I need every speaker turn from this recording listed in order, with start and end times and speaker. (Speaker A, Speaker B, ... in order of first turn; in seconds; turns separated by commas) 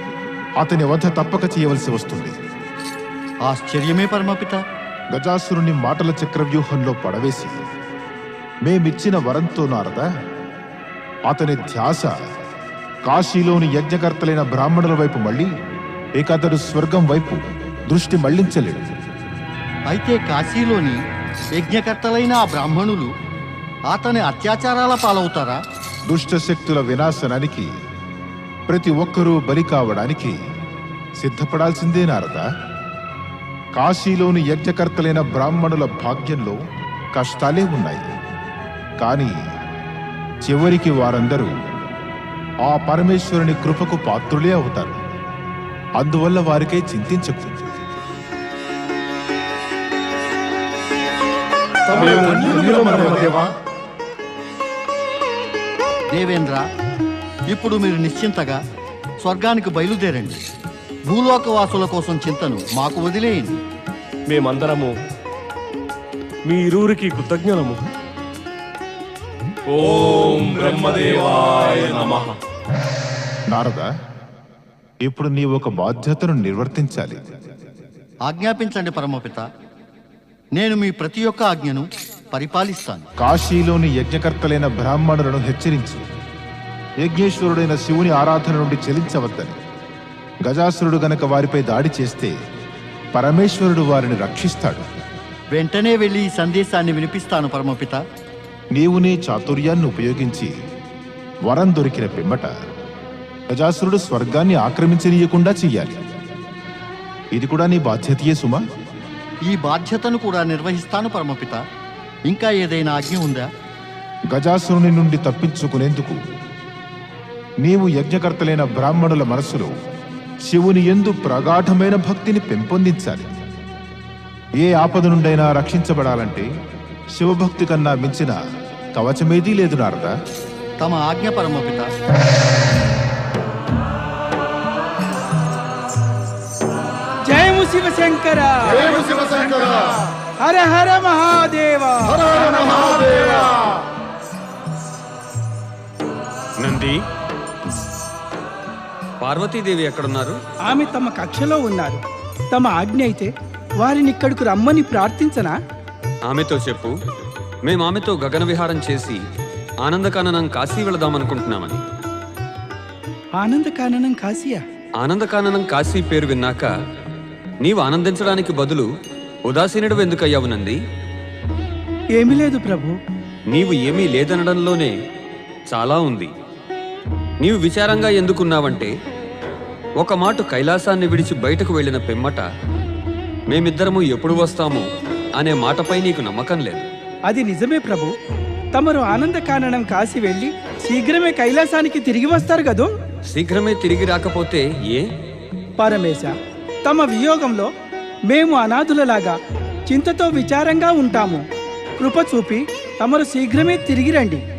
Speaker A: 0.6-2.3, Speaker B: 3.4-4.6, Speaker A: 5.1-7.6, Speaker A: 8.6-10.1, Speaker A: 11.3-12.1, Speaker A: 13.1-15.5, Speaker A: 16.1-18.9, Speaker B: 19.9-21.0, Speaker B: 21.6-23.1, Speaker B: 23.9-25.6, Speaker A: 26.1-27.7, Speaker A: 28.7-30.4, Speaker A: 31.2-32.4, Speaker A: 33.7-36.6, Speaker A: 37.1-38.1, Speaker A: 39.0-39.3, Speaker A: 40.5-41.5, Speaker A: 42.6-45.0, Speaker A: 46.0-47.8, Speaker C: 52.0-53.5, Speaker B: 53.0-53.3, Speaker B: 56.1-56.6, Speaker B: 57.5-58.6, Speaker B: 59.2-60.4, Speaker B: 61.1-63.6, Speaker C: 64.3-64.9, Speaker C: 66.5-67.8, Speaker C: 69.7-72.3, Speaker A: 73.5-73.9, Speaker A: 75.0-77.2, Speaker B: 78.2-79.5, Speaker B: 80.5-83.0, Speaker A: 83.2-86.0, Speaker A: 87.0-89.5, Speaker A: 90.4-92.3, Speaker A: 93.1-94.8, Speaker B: 95.5-98.0, Speaker A: 98.7-100.5, Speaker A: 101.5-102.5, Speaker A: 103.5-106.0, Speaker A: 107.3-108.6, Speaker B: 109.4-111.6, Speaker B: 112.2-113.5, Speaker A: 114.3-116.2, Speaker A: 117.6-119.7, Speaker A: 120.5-123.2, Speaker A: 124.6-126.5, Speaker A: 127.2-128.3, Speaker A: 128.9-130.1, Speaker B: 130.8-131.9, Speaker D: 137.3-139.7, Speaker D: 140.4-143.5, Speaker E: 146.6-147.0, Speaker E: 149.2-150.4, Speaker D: 150.7-152.0, Speaker D: 152.5-155.6, Speaker E: 156.3-156.9, Speaker E: 157.6-159.2, Speaker E: 159.8-161.8, Speaker D: 163.3-164.6, Speaker E: 165.0-166.7, Speaker E: 167.6-168.9, Speaker E: 169.4-170.8, Speaker D: 172.2-172.9, Speaker E: 173.5-174.9, Speaker E: 175.7-176.3, Speaker E: 177.4-178.9, Speaker E: 180.0-182.4, Speaker E: 183.5-184.8, Speaker E: 185.4-186.8, Speaker D: 187.3-188.1, Speaker D: 188.7-192.9, Speaker E: 193.3-195.1, Speaker D: 195.8-197.7, Speaker D: 198.3-201.4, Speaker D: 202.0-204.4